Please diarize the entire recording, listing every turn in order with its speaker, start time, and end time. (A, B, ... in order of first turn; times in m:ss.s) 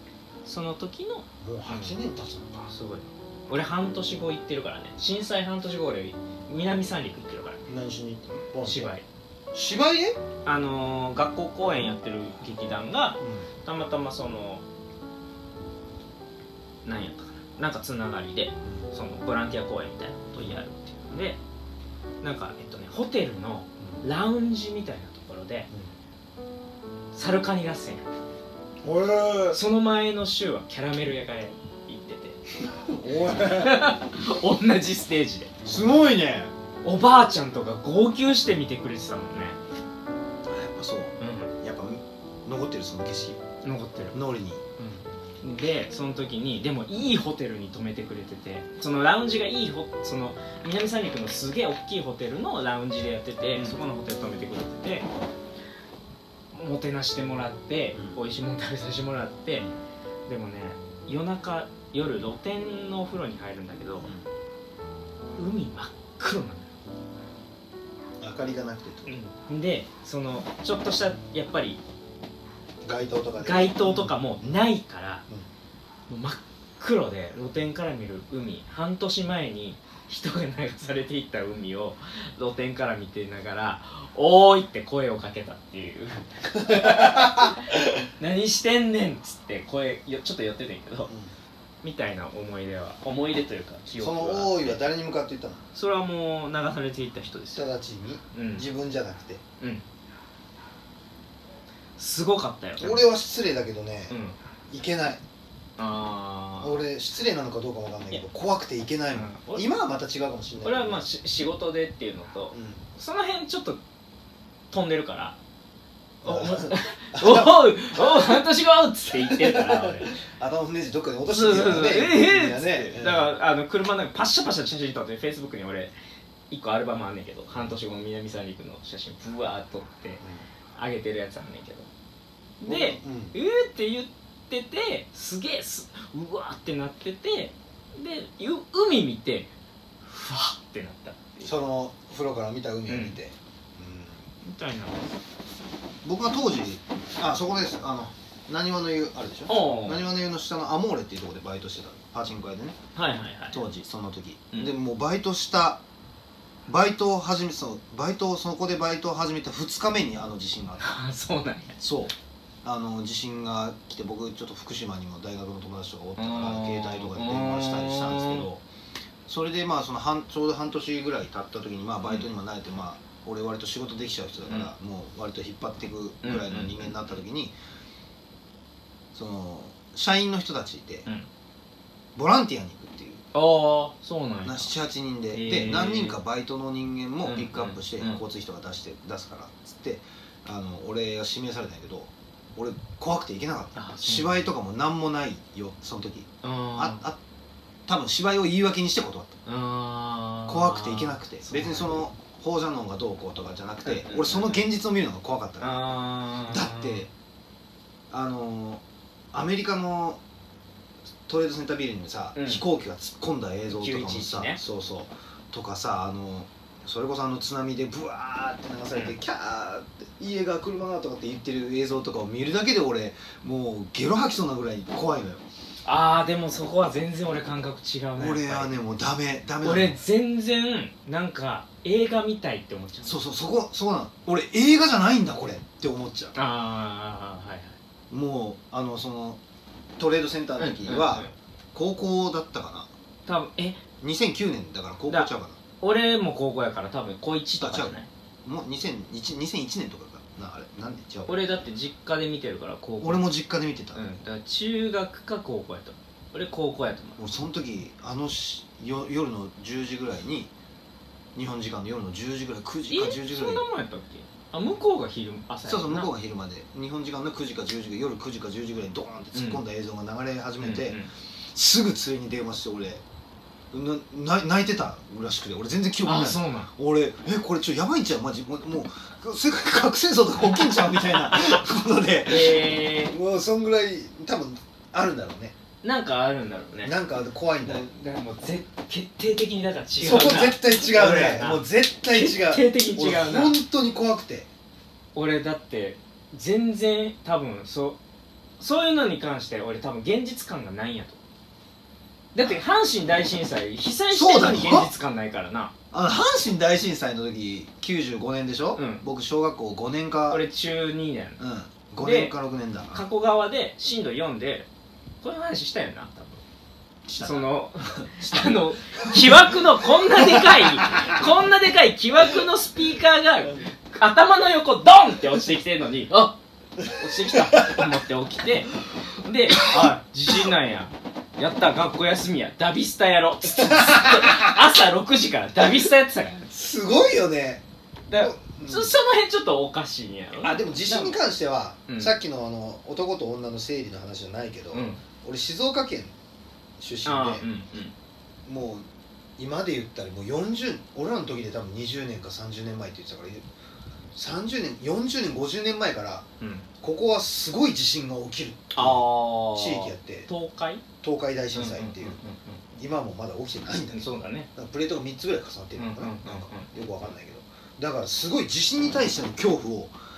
0:00.4-0:01.9 A
0:01.4-0:02.7 B
0:02.7-0:07.6 A
0:07.7-0:08.9 B
0:08.6-0:09.0 A
0:09.5-0:10.2 B
0:10.4-0:14.6 A
0:13.2-0:13.5 B
0:16.8-0:21.4 A
0:22.2-0:25.7 A
0:27.1-0:28.1 A
0:28.8-0:29.6 B
0:29.5-0:32.4 A
0:32.6-0:33.9 B
0:33.3-0:35.5 A
0:35.6-0:36.5 B
0:36.8-0:39.6 A
0:40.5-0:43.4 B
0:41.2-0:41.5 A
0:43.6-0:44.2 A
0:44.1-0:44.6 B
0:44.8-0:55.1 A
0:56.5-0:59.7 A
1:00.3-1:04.1 A
1:04.0-1:04.3 B
1:05.4-1:06.7 A
1:08.2-1:09.1 B
1:09.0-1:11.8 A
1:12.8-1:14.6 B
1:13.4-1:15.2 A
1:16.1-1:31.1 A
1:26.4-1:27.7 B
1:31.1-1:31.3 B
1:31.8-1:34.8 A
1:34.0-1:35.6 B
1:35.7-1:37.7 A
1:37.5-1:39.4 B
1:38.3-1:38.6 A
1:42.0-1:43.0 A
1:42.8-1:44.2 B
1:44.1-1:44.4 A
1:44.7-1:45.2 B
1:45.8-1:46.8 A
1:46.6-1:51.0 B
1:49.1-1:49.7 A
1:50.6-1:53.8 A
1:52.5-1:52.8 B
1:54.7-1:55.4 A
1:56.2-1:58.4 B
1:56.2-2:00.1 A
1:59.1-2:03.3 B
2:01.3-2:05.9 A
2:06.5-2:10.2 A
2:10.8-2:11.9 A
2:12.6-2:19.5 A
2:12.6-2:13.4 B
2:20.0-2:21.5 A
2:21.4-2:24.2 B
2:22.9-2:23.2 A
2:24.4-2:25.1 A
2:26.0-2:32.7 B
2:29.5-2:30.0 A
2:33.0-2:33.6 A
2:33.5-2:35.8 B
2:36.7-2:41.0 B
2:40.8-2:41.8 A
2:41.8-2:42.1 B
2:42.6-2:48.6 B
2:46.2-2:48.5 A
2:49.3-2:57.5 B
2:52.0-2:52.3 A
2:56.2-2:57.0 A
2:59.1-3:01.0 B
3:02.1-3:03.2 B
3:03.3-3:04.7 A
3:04.4-3:17.2 B
3:05.3-3:06.2 A
3:07.2-3:08.2 A
3:13.7-3:14.5 A
3:16.4-3:17.0 A
3:17.9-3:19.4 B
3:19.4-3:22.0 A
3:20.5-3:27.1 B
3:23.8-3:24.7 A
3:25.6-3:27.0 A
3:28.1-3:28.8 B
3:29.3-3:30.2 B
3:31.3-3:45.4 B
3:32.3-3:32.6 A
3:33.7-3:34.6 A
3:45.8-3:48.7 A
3:48.2-3:50.0 B
3:49.6-3:53.1 A
3:53.0-3:56.3 B
3:56.3-3:57.8 A
3:58.1-3:59.4 B
4:00.0-4:02.9 B
4:00.6-4:01.3 A
4:03.3-4:03.8 A
4:04.0-4:05.6 B
4:05.8-4:08.1 A
4:07.6-4:11.4 B
4:11.3-4:13.2 A
4:13.0-4:14.2 B
4:13.9-4:17.2 A
4:17.2-4:20.5 B
4:21.3-4:23.6 B
4:22.9-4:26.1 A
4:25.6-4:31.0 B
4:29.3-4:29.6 A
4:30.6-4:31.1 A
4:31.5-4:33.0 B
4:33.7-4:45.5 B
4:36.0-4:36.7 A
4:42.2-4:43.2 A
4:45.8-4:47.0 A
4:46.8-4:47.8 B
4:47.6-4:53.6 A
4:50.0-4:54.5 B
4:55.1-4:58.0 A
4:58.6-5:01.2 A
5:02.3-5:05.7 A
5:04.1-5:04.9 B
5:05.9-5:10.4 B
5:08.7-5:09.0 A
5:10.3-5:11.4 A
5:11.4-5:13.1 B
5:12.0-5:12.3 A
5:12.9-5:14.7 A
5:15.2-5:16.4 A
5:17.1-5:19.6 B
5:17.2-5:36.5 A
5:20.1-5:21.2 B
5:26.8-5:27.9 B
5:29.6-5:30.5 B
5:33.4-5:34.6 B
5:36.5-5:37.6 B
5:38.1-5:41.2 A
5:38.2-5:39.0 B
5:40.4-5:46.1 B
5:41.9-5:42.1 A
5:44.7-5:45.0 A
5:46.8-5:47.5 B
5:47.0-5:47.9 A
5:48.4-5:48.8 B
5:49.4-5:53.4 B
5:54.1-5:56.2 B
5:56.4-5:56.7 A
5:56.8-6:00.3 B
5:58.8-6:00.8 A
6:01.0-6:02.2 B
6:01.5-6:02.6 A
6:02.8-6:09.9 B
6:03.9-6:04.5 A
6:05.8-6:06.7 A